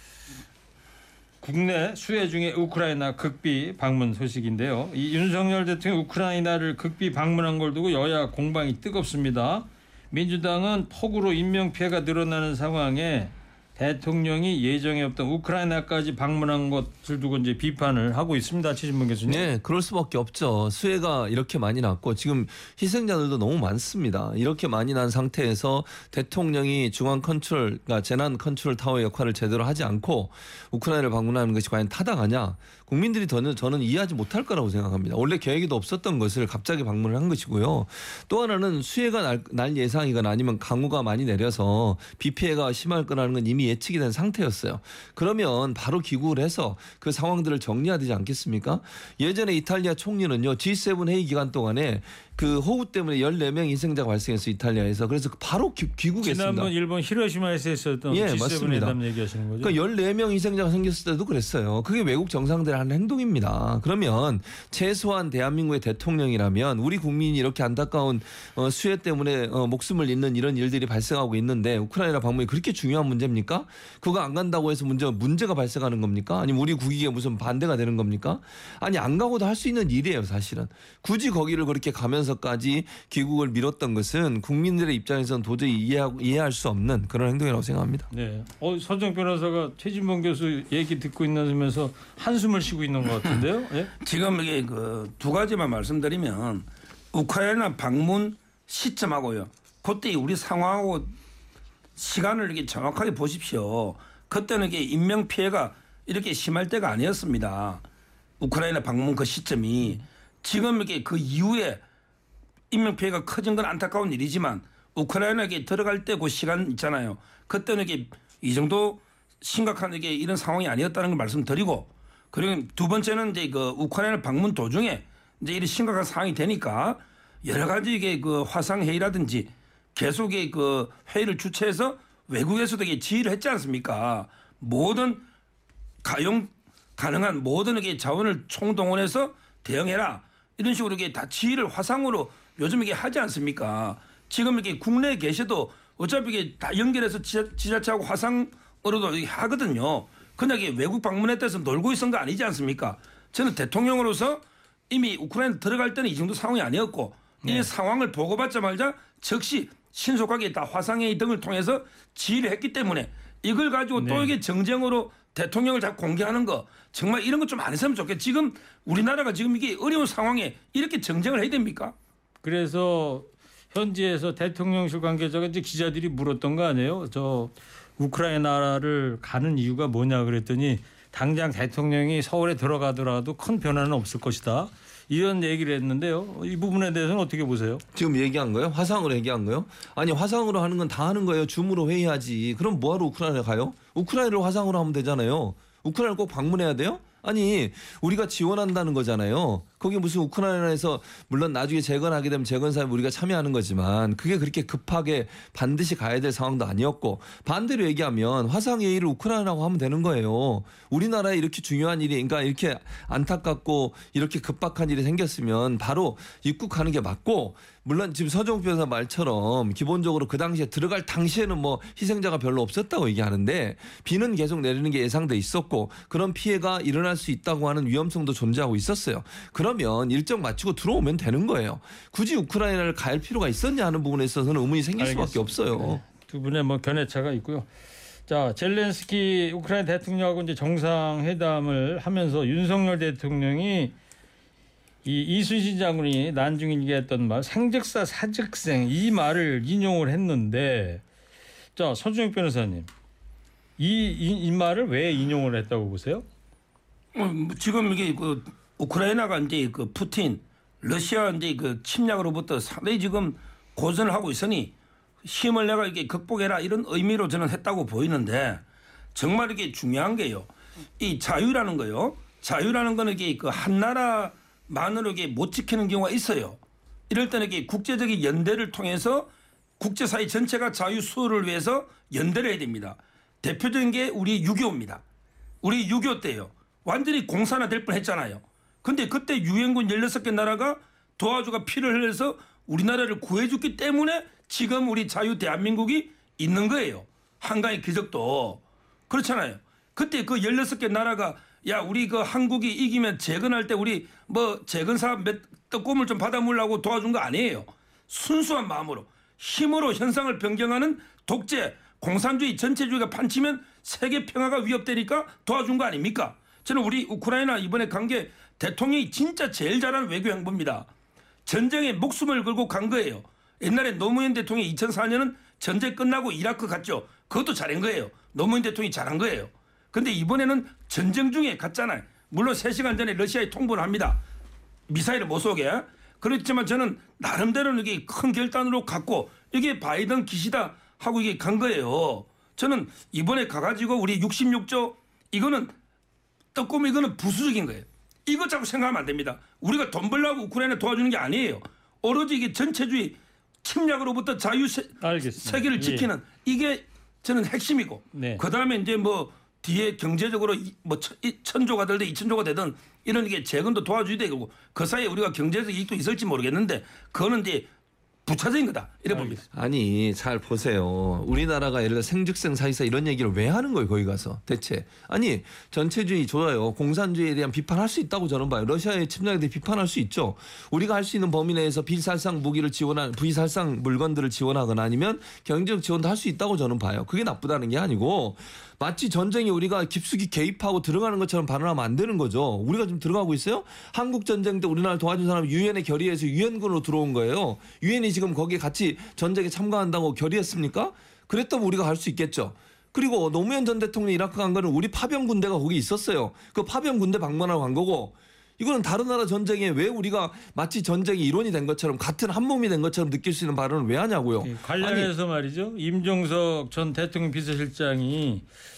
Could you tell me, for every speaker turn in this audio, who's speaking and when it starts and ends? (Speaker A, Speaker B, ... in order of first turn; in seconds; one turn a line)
Speaker A: 1.4-19.5
Speaker B: 19.2-56.7
Speaker A: 56.2-59.8
Speaker B: 58.1-59.0
Speaker B: 59.6-88.1
Speaker A: 88.1-93.9
Speaker C: 94.0-101.1
Speaker C: 102.0-107.8
Speaker C: 108.4-111.8
Speaker C: 112.7-135.2
Speaker C: 136.0-171.9
Speaker A: 157.4-157.7
Speaker A: 163.9-164.3
Speaker A: 172.4-187.8
Speaker B: 187.9-236.0
Speaker A: 235.0-237.7
Speaker A: 238.3-243.9
Speaker A: 245.0-251.0
Speaker A: 251.8-252.9
Speaker A: 253.8-256.2
Speaker C: 257.1-264.7
Speaker C: 265.2-268.6
Speaker C: 269.1-285.0
Speaker C: 285.6-320.9
Speaker C: 321.4-334.2
Speaker C: 334.9-345.7
Speaker C: 346.5-367.7
Speaker A: 355.0-356.1
Speaker A: 358.1-358.4
Speaker C: 368.2-369.4
Speaker A: 369.1-369.4
Speaker B: 369.5-415.1
Speaker A: 414.4-418.4